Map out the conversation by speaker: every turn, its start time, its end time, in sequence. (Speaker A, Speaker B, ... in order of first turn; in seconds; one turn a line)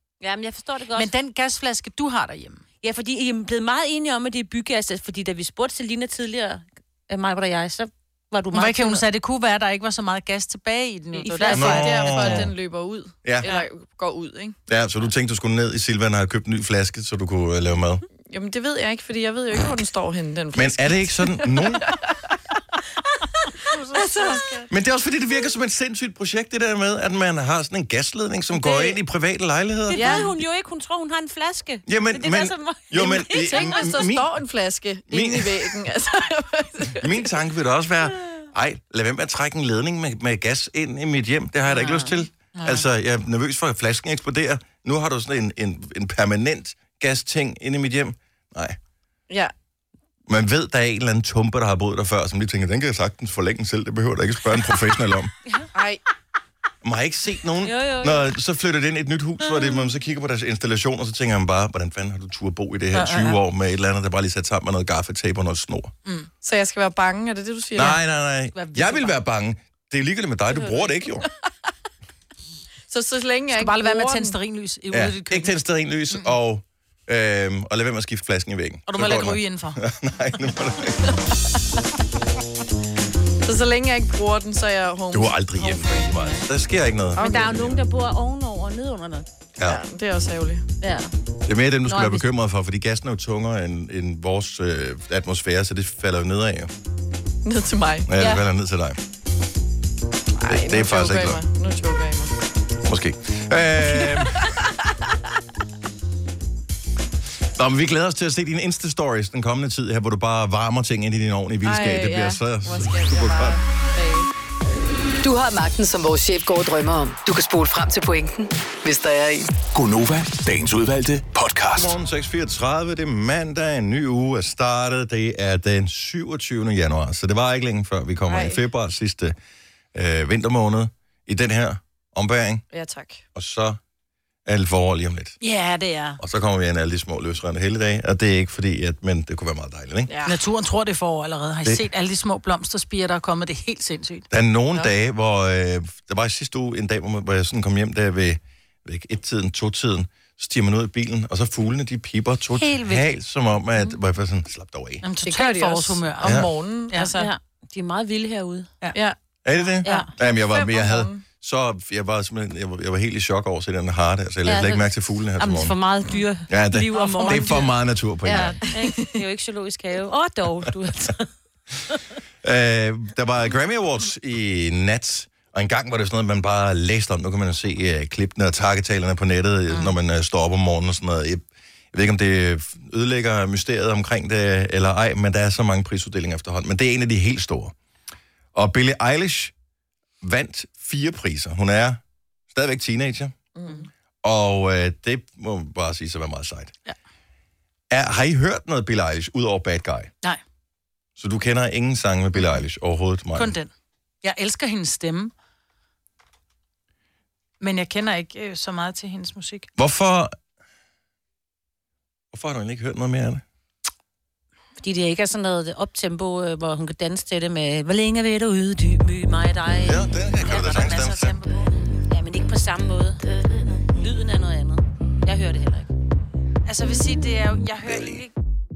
Speaker A: 0.2-1.1
Speaker B: 0.9-2.6
Speaker A: 2.8-9.0
Speaker B: 8.5-12.1
Speaker A: 11.2-12.3
Speaker C: 11.4-14.6
Speaker D: 11.5-12.5
Speaker D: 14.7-18.0
Speaker C: 18.2-22.2
Speaker D: 20.5-21.9
Speaker A: 23.7-24.7
Speaker C: 23.9-24.6
Speaker D: 24.7-30.4
Speaker A: 28.5-29.0
Speaker A: 29.9-33.9
Speaker C: 29.9-30.3
Speaker D: 31.9-34.3
Speaker C: 33.4-37.2
Speaker D: 35.1-35.8
Speaker D: 37.0-48.8
Speaker A: 41.7-42.2
Speaker B: 42.5-42.9
Speaker D: 50.3-55.3
Speaker C: 55.7-56.0
Speaker D: 56.8-65.9
Speaker A: 57.6-58.3
Speaker A: 59.5-59.8
Speaker B: 62.9-63.3
Speaker C: 66.4-68.0
Speaker D: 67.7-71.3
Speaker B: 68.5-69.2
Speaker C: 72.9-74.4
Speaker B: 73.5-75.5
Speaker D: 74.9-81.2
Speaker B: 78.9-79.8
Speaker C: 83.4-86.4
Speaker D: 85.1-87.8
Speaker C: 87.2-87.7
Speaker A: 87.2-89.3
Speaker C: 89.6-90.7
Speaker A: 90.8-91.1
Speaker D: 91.5-96.7
Speaker A: 91.8-92.2
Speaker C: 97.4-98.1
Speaker D: 98.1-99.0
Speaker A: 98.2-98.4
Speaker C: 100.4-102.3
Speaker D: 100.5-101.4
Speaker D: 102.8-104.5
Speaker D: 107.5-113.6
Speaker C: 111.6-114.3
Speaker E: 115.2-119.5
Speaker F: 119.7-121.9
Speaker D: 121.7-129.3
Speaker C: 128.3-128.6
Speaker D: 129.9-132.6
Speaker C: 132.7-133.2
Speaker D: 133.3-133.8
Speaker D: 134.4-135.4
Speaker B: 135.4-136.2
Speaker D: 136.2-140.1
Speaker C: 140.1-140.4
Speaker B: 140.2-144.3
Speaker D: 144.3-155.0
Speaker B: 152.6-153.0
Speaker B: 155.0-157.3
Speaker C: 155.2-157.1
Speaker D: 156.2-156.5
Speaker A: 157.1-158.7
Speaker D: 159.4-165.7
Speaker A: 159.8-160.1
Speaker C: 160.2-161.2
Speaker A: 164.4-167.7
Speaker D: 166.5-168.6
Speaker B: 166.9-167.7
Speaker A: 168.2-171.3
Speaker C: 168.8-169.1
Speaker D: 172.4-187.7
Speaker A: 179.7-179.9
Speaker D: 188.5-189.5
Speaker D: 190.2-193.3
Speaker C: 193.5-193.9
Speaker D: 194.2-196.7
Speaker D: 197.9-200.1
Speaker D: 201.2-203.5
Speaker B: 203.3-203.7
Speaker B: 204.2-205.3
Speaker B: 207.6-209.7
Speaker D: 209.8-210.3
Speaker D: 212.3-213.4
Speaker A: 214.8-221.0
Speaker D: 219.8-221.3
Speaker B: 220.4-221.7
Speaker A: 222.1-223.2
Speaker A: 223.8-225.9
Speaker B: 226.7-228.3